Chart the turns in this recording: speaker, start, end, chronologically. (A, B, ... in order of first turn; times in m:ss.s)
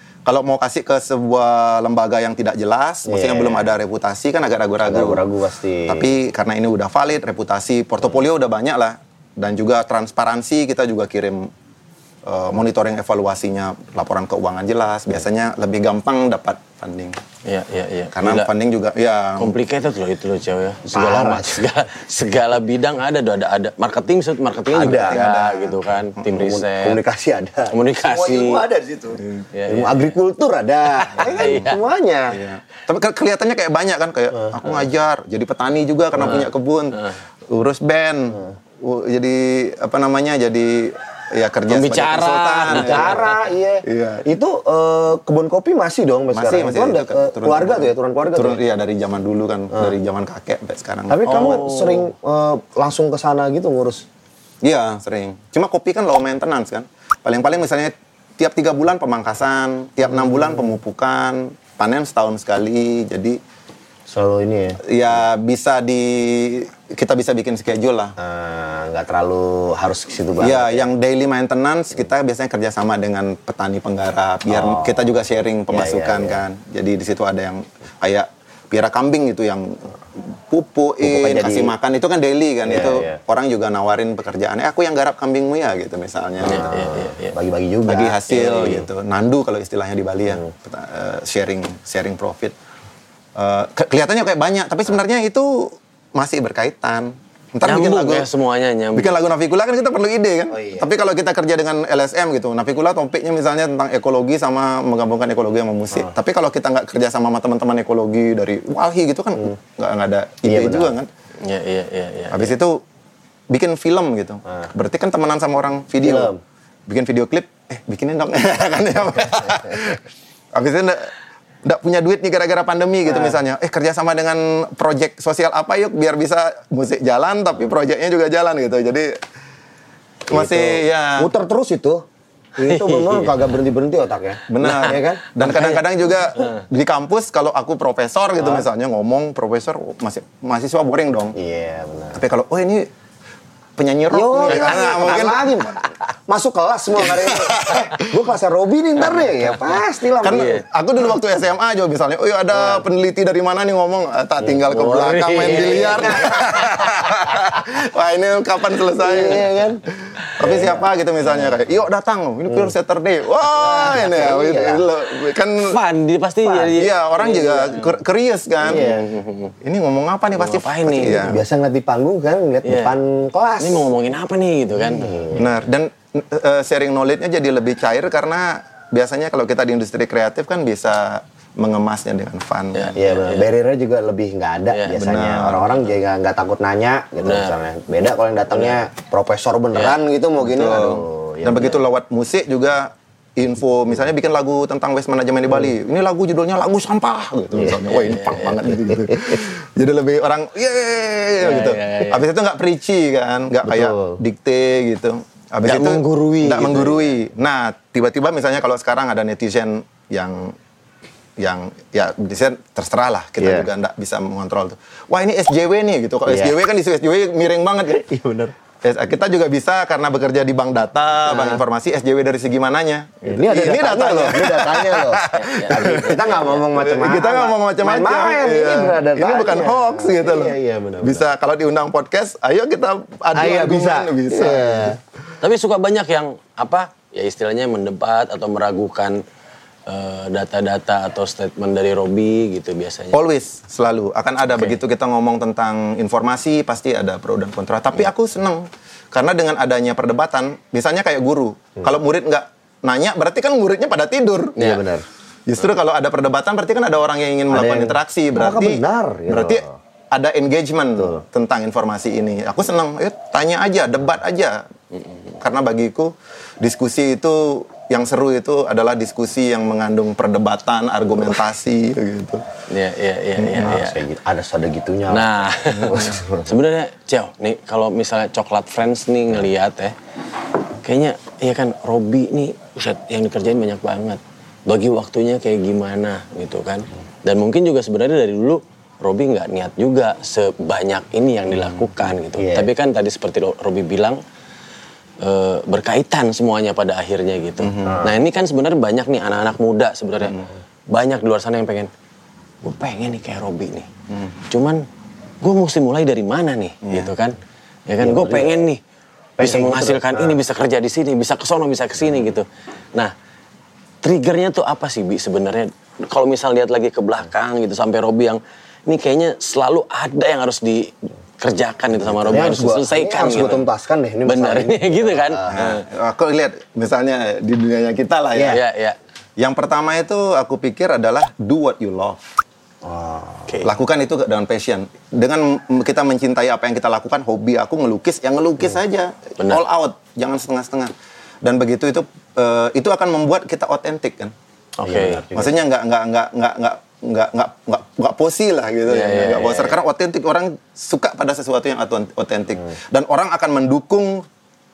0:00.2-0:05.2 A
0:03.0-0:03.7 B
0:04.8-0:06.1 B
0:05.9-0:11.5 A
0:12.2-0:17.2 A
0:17.4-0:18.5 C
0:18.1-0:19.6 A
0:19.4-0:27.0 C
0:20.9-0:21.7 B
0:24.7-0:25.2 B
0:24.9-0:26.2 A
0:26.3-0:32.4 B
0:27.7-0:28.6 C
0:29.5-0:30.1 C
0:31.1-0:31.7 A
0:31.2-0:31.8 C
0:32.3-0:43.3 A
0:41.7-0:43.3 C
0:42.7-0:48.6 B
0:43.8-0:44.2 A
0:46.3-0:51.6 A
0:51.1-0:54.0 B
0:51.2-0:52.0 C
0:54.6-1:03.4 A
1:04.1-1:04.8 B
1:04.8-1:08.2 A
1:08.2-1:10.9 B
1:10.4-1:26.7 A
1:14.5-1:15.1 B
1:15.7-1:16.4 B
1:21.0-1:21.7 B
1:22.6-1:23.2 B
1:26.4-1:28.8 B
1:26.4-1:27.4 C
1:27.8-1:32.5 A
1:33.3-1:38.3 A
1:37.6-1:39.2 C
1:38.9-1:51.1 A
1:40.5-1:40.9 B
1:50.4-1:50.9 B
1:51.4-1:52.5 C
1:52.3-1:52.8 A
1:53.5-1:56.3 A
1:56.0-1:56.4 B
1:56.9-2:00.0 A
2:00.5-2:01.1 A
2:01.6-2:09.2 A
2:03.0-2:03.4 B
2:10.3-2:11.3 A
2:10.3-2:12.0 B
2:12.6-2:15.2 B
2:12.6-2:13.5 C
2:14.5-2:21.4 A
2:14.6-2:15.8 C
2:21.3-2:22.2 B
2:22.1-2:22.9 A
2:23.8-2:25.8 A
2:24.1-2:30.6 B
2:27.0-2:28.2 A
2:30.2-2:39.6 A
2:30.3-2:30.6 C
2:32.5-2:32.8 B
2:34.6-2:36.3 C
2:35.4-2:36.9 B
2:39.0-2:39.8 B
2:40.3-2:45.8 A
2:40.4-2:40.9 B
2:43.5-2:44.8 B
2:45.6-2:48.0 C
2:46.4-2:46.8 B
2:46.7-2:48.9 A
2:48.6-2:49.1 B
2:48.7-2:49.5 C
2:49.6-2:51.4 A
2:50.4-2:51.3 C
2:51.1-2:53.9 B
2:52.6-2:53.0 C
2:53.6-2:55.1 C
2:54.8-2:55.5 B
2:55.3-3:02.9 A
3:02.7-3:03.5 C
3:03.0-3:11.8 B
3:04.7-3:05.2 C
3:04.9-3:05.7 A
3:07.2-3:07.6 C
3:10.4-3:30.6 A
3:17.5-3:17.8 B
3:17.9-3:18.6 C
3:18.7-3:19.4 B
3:21.4-3:22.3 C
3:23.6-3:24.2 B
3:25.6-3:27.1 C
3:31.4-3:38.0 A
3:33.4-3:33.7 B
3:36.2-3:36.5 B
3:37.9-3:38.5 B
3:38.8-3:55.0 A
3:41.2-3:41.6 B
3:43.2-3:51.3 B
3:45.3-3:46.6 C
3:53.3-3:55.0 B
3:55.4-3:59.2 C
3:59.8-4:03.2 C
4:03.1-4:14.6 A
4:04.5-4:04.8 C
4:14.6-4:15.0 B
4:15.5-4:24.6 A
4:17.5-4:19.7 B
4:25.4-4:32.4 A
4:32.7-4:34.0 C
4:33.5-4:36.5 B
4:35.1-4:39.9 C
4:40.8-4:54.2 C
4:52.4-4:52.7 B
4:55.2-5:01.9 C
4:57.6-4:58.0 A
4:57.8-4:58.2 B
5:02.6-5:03.9 C
5:04.5-5:04.8 C
5:05.4-5:08.8 C
5:06.8-5:07.1 A
5:08.0-5:08.6 B
5:09.4-5:10.4 B
5:09.4-5:13.1 C
5:14.0-5:23.6 C
5:22.2-5:22.4 A
5:22.3-5:25.6 B
5:24.2-5:25.8 C
5:25.5-5:28.6 A
5:28.3-5:28.6 B
5:28.4-5:29.0 C
5:29.4-5:32.2 A
5:32.8-5:33.5 B
5:33.6-5:40.9 A
5:41.4-5:44.3 A
5:44.8-5:45.3 C
5:44.8-5:45.6 B
5:45.3-5:54.2 A
5:48.9-5:49.8 C